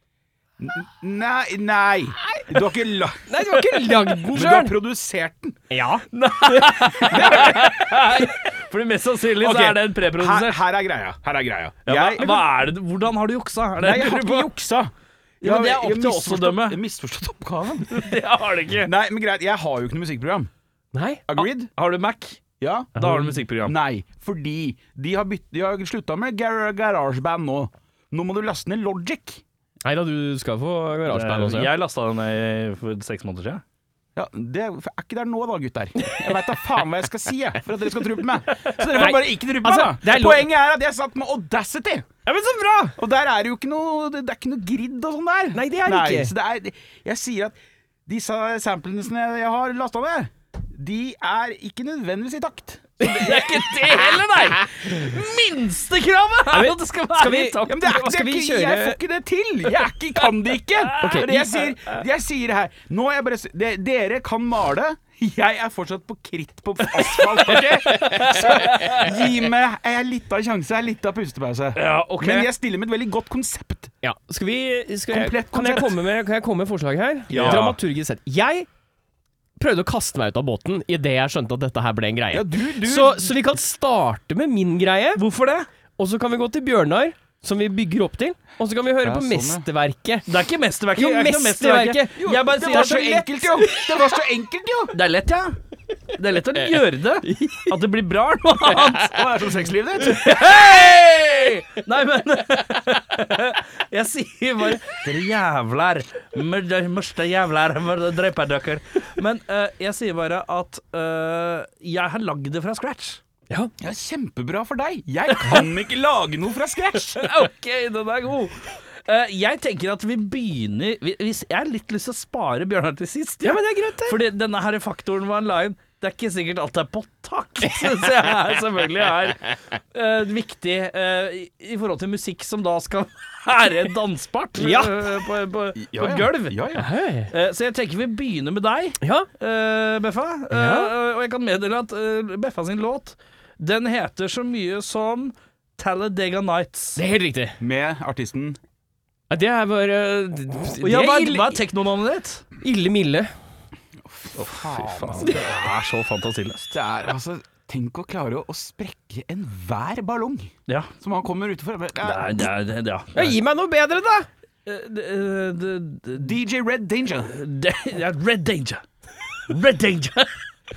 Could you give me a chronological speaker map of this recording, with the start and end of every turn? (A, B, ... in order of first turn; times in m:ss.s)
0:00.6-0:05.6 A
0:03.3-0:04.8 B
0:05.7-0:07.6 B
0:06.1-0:10.6 C
0:07.1-0:07.8 A
0:09.4-0:12.5 A
0:11.9-0:14.5 C
0:13.8-0:18.2 A
0:15.4-0:16.8 C
0:17.9-0:18.9 C
0:18.8-0:20.5 A
0:20.9-0:21.2 B
0:21.3-0:21.7 A
0:21.8-0:22.4 C
0:22.6-0:29.4 A
0:23.0-0:23.8 C
0:29.8-0:31.7 B
0:31.1-0:33.6 C
0:34.2-0:42.1 A
0:38.9-0:40.5 B
0:42.3-0:42.9 C
0:43.0-0:53.4 A
0:45.5-0:46.3 B
0:53.0-0:57.9 C
0:56.5-0:59.0 B
0:57.7-1:13.9 A
1:00.8-1:01.6 C
1:01.0-1:01.3 B
1:07.0-1:09.1 C
1:11.8-1:12.5 C
1:14.0-1:18.7 B
1:15.1-1:16.0 A
1:17.3-1:17.8 A
1:17.3-1:17.8 C
1:19.6-1:25.2 B
1:22.3-1:23.4 A
1:25.2-1:25.7 C
1:26.0-1:30.3 B
1:29.0-1:29.6 A
1:30.3-1:33.3 C
1:31.0-1:33.1 B
1:32.2-1:35.0 A
1:34.9-1:35.6 C
1:36.2-1:39.3 C
1:37.2-1:37.7 B
1:39.0-1:40.3 A
1:40.0-1:53.2 C
1:53.8-1:57.3 A
1:55.4-1:55.6 C
1:57.2-2:16.6 C
2:03.4-2:04.2 B
2:14.6-2:15.1 B
2:15.8-2:16.9 A
2:16.7-2:17.3 B
2:17.3-2:27.0 C
2:19.0-2:19.3 B
2:20.5-2:20.9 B
2:27.0-2:27.6 B
2:27.6-2:28.6 A
2:29.3-2:31.6 B
2:30.8-2:32.4 C
2:32.6-2:33.3 B
2:34.0-2:35.5 A
2:34.4-2:36.7 C
2:36.7-2:42.5 A
2:42.0-2:43.4 C
2:43.2-2:44.3 B
2:44.7-2:46.3 C
2:46.2-2:47.3 A
2:47.3-2:48.8 C
2:49.5-2:50.5 C